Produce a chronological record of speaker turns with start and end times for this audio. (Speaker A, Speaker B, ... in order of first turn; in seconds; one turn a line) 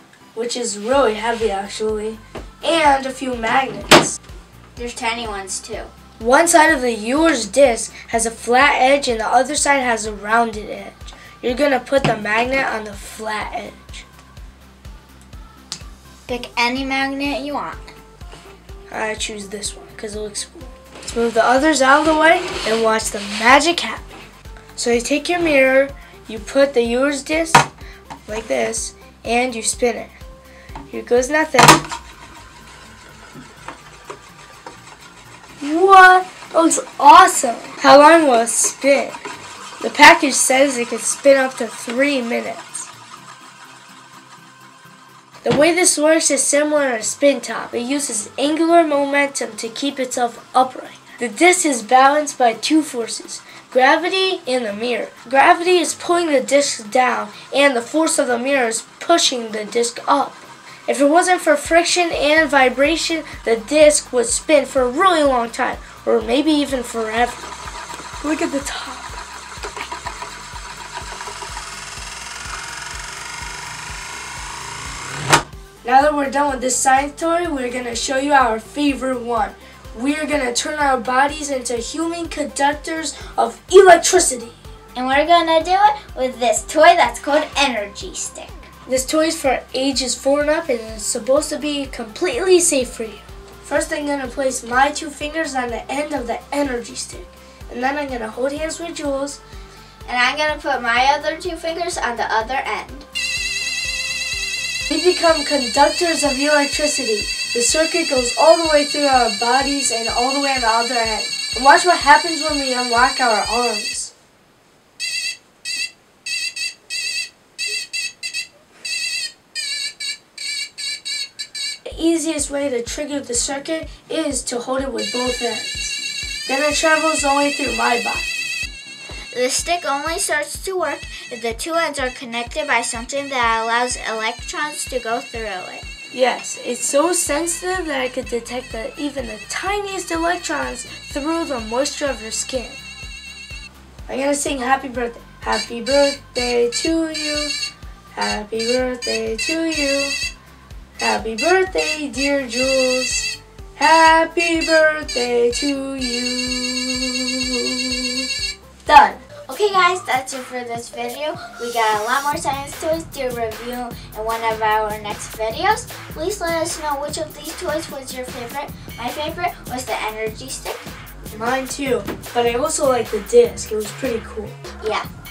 Speaker A: 0.3-4.2
Speaker B: 4.8-5.9
Speaker A: 6.2-14.1
Speaker B: 16.3-17.8
Speaker A: 18.9-24.1
Speaker A: 24.8-27.7
Speaker A: 28.3-30.2
Speaker A: 30.9-31.8
Speaker A: 35.6-39.2
Speaker A: 39.8-42.9
Speaker A: 45.4-67.5
Speaker A: 68.2-69.2
Speaker A: 75.8-84.6
Speaker B: 84.9-88.7
Speaker A: 88.9-99.4
Speaker B: 100.1-103.1
Speaker A: 104.9-114.1
Speaker A: 121.8-128.4
Speaker B: 129.3-135.9
Speaker A: 136.1-142.8
Speaker A: 144.1-147.5
Speaker A: 148.1-150.2
Speaker A: 151.0-157.9
Speaker A: 158.8-159.2
Speaker B: 159.5-170.9
Speaker A: 171.3-174.6
Speaker B: 174.8-175.1